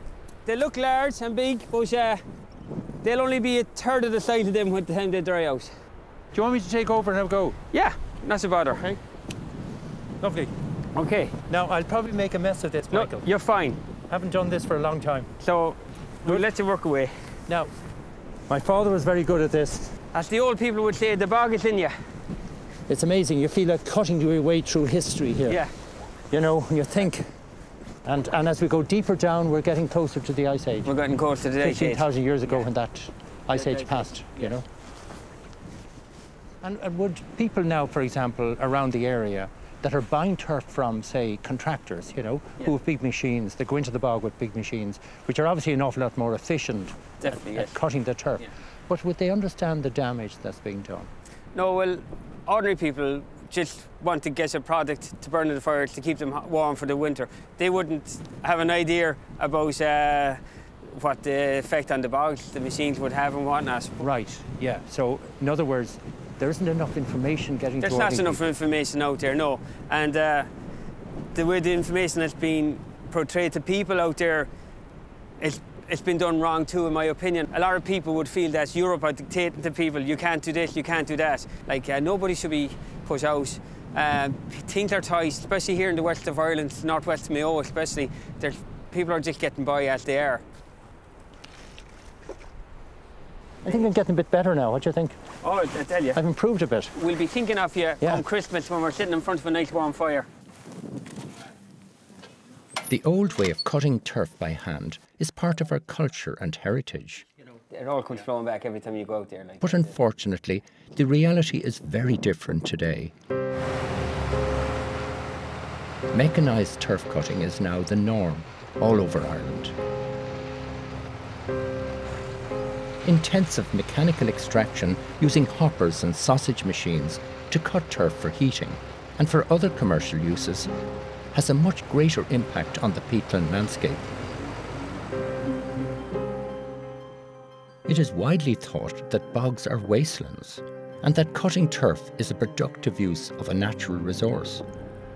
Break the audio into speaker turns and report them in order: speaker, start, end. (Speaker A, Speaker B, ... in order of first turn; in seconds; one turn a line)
Speaker A: 0.4-2.2
Speaker A: 3.0-5.7
Speaker B: 6.3-7.6
Speaker A: 7.7-8.9
Speaker B: 10.2-10.5
Speaker A: 10.9-11.3
Speaker B: 11.5-13.2
Speaker A: 12.9-13.8
Speaker B: 14.1-15.3
Speaker A: 15.4-17.1
Speaker B: 18.5-20.0
Speaker A: 20.1-21.9
Speaker B: 22.9-25.6
Speaker A: 25.4-25.7
Speaker B: 26.3-27.2
Speaker B: 28.0-30.9
Speaker A: 30.8-32.7
Speaker B: 31.6-34.6
Speaker A: 33.5-34.5
Speaker B: 36.6-51.1
Speaker A: 47.2-47.8
Speaker A: 51.5-64.0
Speaker B: 64.0-68.4
Speaker A: 67.8-70.5
Speaker A: 71.3-74.5
Speaker A: 75.4-90.4
Speaker B: 93.6-95.2
Speaker A: 95.4-96.2
Speaker B: 96.1-96.9
Speaker A: 96.9-100.3
Speaker C: 102.9-107.2
Speaker A: 107.7-109.9
Speaker C: 109.6-113.1
Speaker C: 116.1-119.7
Speaker C: 123.0-130.7
Speaker C: 131.3-134.1
Speaker C: 137.8-144.6